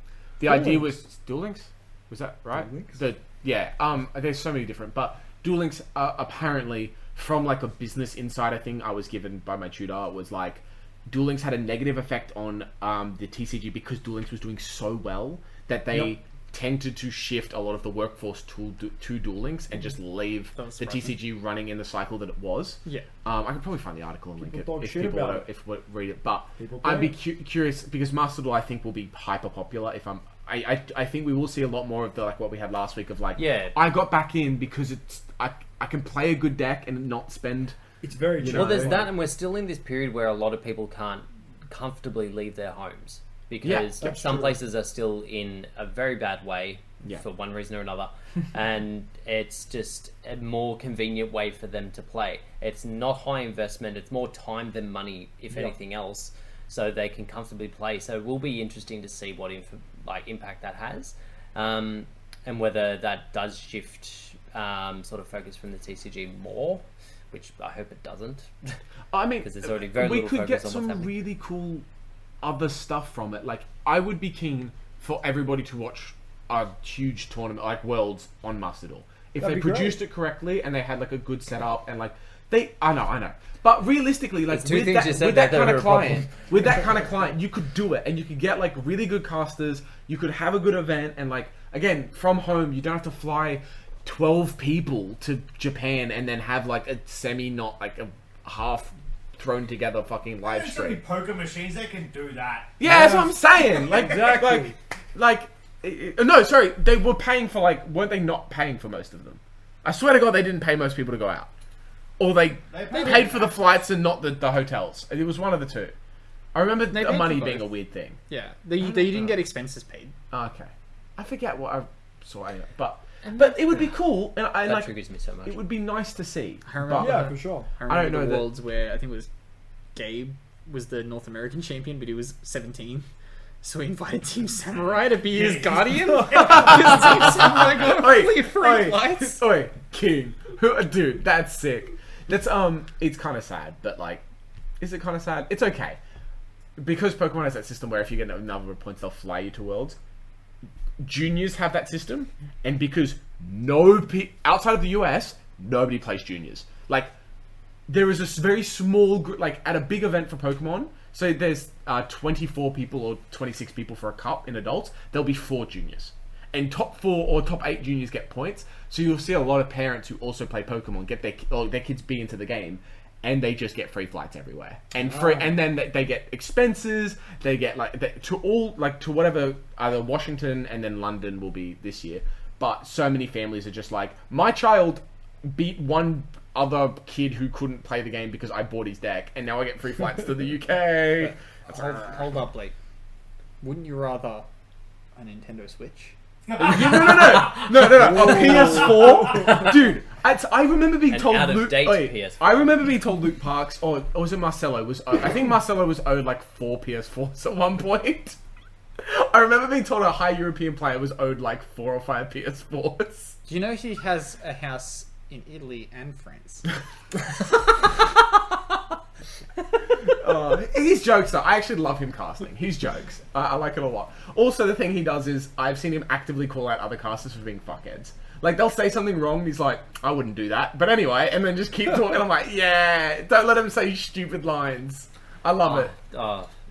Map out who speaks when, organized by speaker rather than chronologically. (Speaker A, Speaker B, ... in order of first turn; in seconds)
Speaker A: 0.4-37.8, 38.4-39.1, 43.6-44.2, 69.1-71.9, 72.4-101.0, 102.8-111.5, 112.2-115.9, 116.5-118.2, 118.8-119.4, 120.3-124.9, 125.5-127.3, 127.9-128.5, 136.5-144.2, 144.8-146.0, 146.8-150.0, 151.0-157.1, 157.9-192.2, 196.6-208.4, 209.0-213.4, 220.2-235.9
Speaker B: 0.4-0.9, 2.5-3.0, 24.4-25.4, 26.6-27.1, 38.0-39.1, 44.0-44.6, 79.4-80.0, 102.8-104.8, 127.0-127.7, 175.1-175.6, 197.8-199.8
Speaker C: 20.6-21.2, 116.9-117.7, 118.3-120.1, 126.7-129.3, 129.9-133.1, 133.6-139.4, 191.3-192.7, 193.6-194.4, 195.2-196.2, 213.5-216.7
Speaker D: 33.4-33.8, 38.5-68.8, 69.4-71.1, 84.5-86.4, 123.2-124.0, 124.6-125.6, 201.1-202.5, 235.6-236.5
Speaker E: 100.4-102.8, 112.7-113.5, 135.3-136.7, 196.5-197.8